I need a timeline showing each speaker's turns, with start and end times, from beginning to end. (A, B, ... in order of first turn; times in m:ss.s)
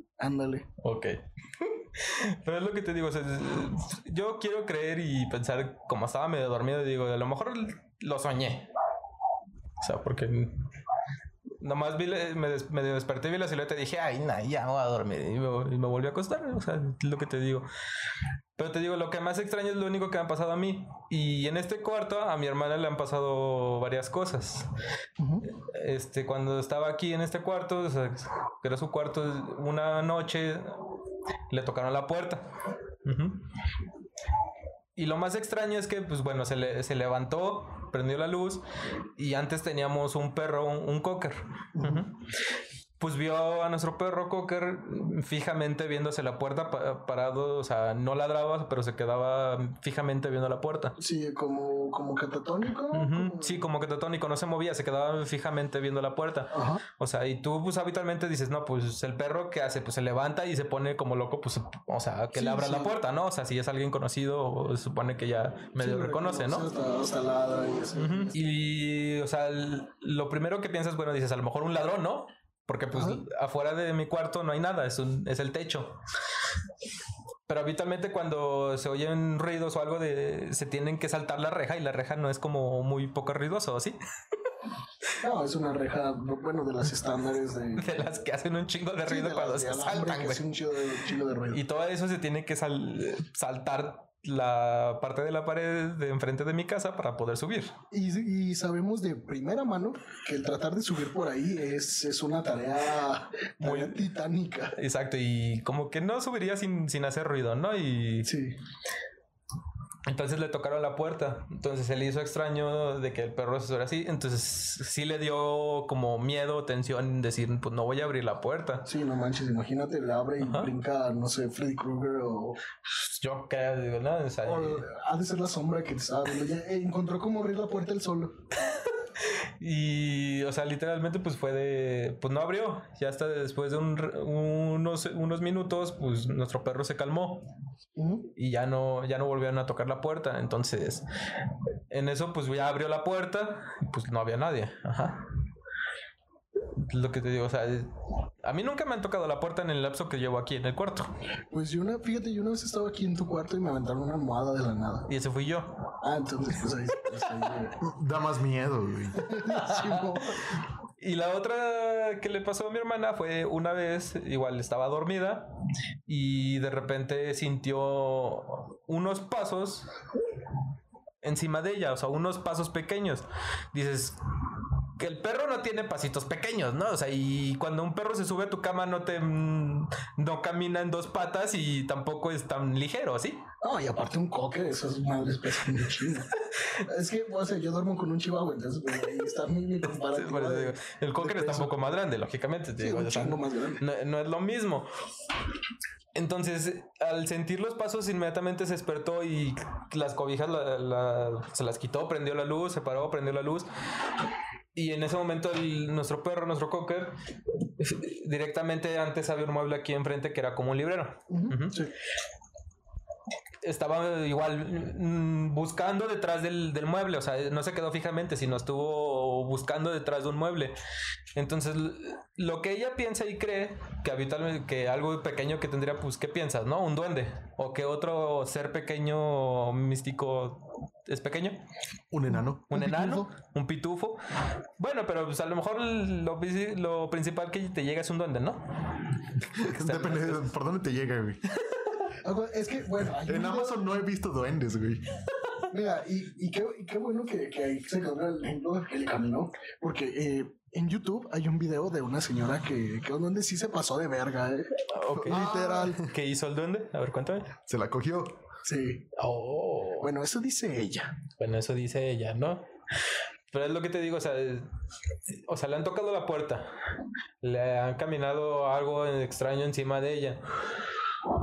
0:00.2-0:00.7 A
0:00.8-0:08.7 B
0:09.8-0:10.6 B
0:11.6-0:17.7 B
0:18.6-0:24.7 B
0:25.2-0:25.5 A
0:25.5-0:30.8 B
0:31.5-0:32.5 B
0:33.0-0:33.4 B
0:35.0-0:38.6 B
0:39.2-0:42.3 B
0:41.8-0:42.1 A
0:43.0-0:51.0 B
0:51.0-0:53.6 A
0:52.9-1:06.7 B
0:56.5-0:56.8 A
1:02.4-1:03.0 A
1:05.8-1:08.3 A
1:08.0-1:16.0 B
1:12.9-1:13.2 A
1:17.5-1:24.0 B
1:25.2-1:28.0 A
1:27.8-1:30.5 B
1:29.0-1:31.6 A
1:31.5-1:37.7 B
1:37.9-1:44.7 A
1:43.6-1:44.1 B
1:44.8-1:48.3 B
1:48.3-1:48.6 A
1:50.1-1:58.9 B
1:58.9-2:02.6 A
2:00.4-2:00.7 B
2:03.1-2:04.9 B
2:04.4-2:08.4 A
2:08.7-2:17.4 B
2:18.0-2:18.3 A
2:18.4-2:21.0 B
2:21.9-2:25.2 B
2:26.8-2:31.1 B
2:31.5-2:35.1 A
2:35.1-2:35.8 B
2:36.0-2:37.8 A
2:37.8-2:39.3 C
2:39.2-2:40.5 A
2:39.4-2:40.3 B
2:41.0-2:45.5 B
2:46.1-2:49.9 B
2:51.2-2:54.2 B
2:55.0-3:03.4 B
3:03.6-3:11.8 A
3:10.0-3:14.9 B
3:12.8-3:13.8 A
3:16.2-3:23.7 B
3:24.8-3:27.2 B
3:27.8-3:31.8 B
3:31.3-3:31.9 A
3:33.6-3:40.8 B
3:41.4-3:51.6 B
3:52.1-3:52.7 C
3:52.3-3:53.3 A
3:52.7-3:54.2 B
3:54.8-3:58.8 B
3:59.5-4:01.4 C
3:59.6-4:00.5 B
4:02.1-4:03.8 A
4:03.2-4:05.2 C
4:05.7-4:16.0 A
4:14.9-4:17.6 B
4:15.3-4:16.1 C
4:17.7-4:18.4 C
4:18.6-4:19.1 A
4:19.2-4:20.1 B
4:20.0-4:21.2 A
4:21.4-4:22.7 B
4:23.5-4:24.7 B
4:25.3-4:26.7 B
4:27.4-4:30.4 B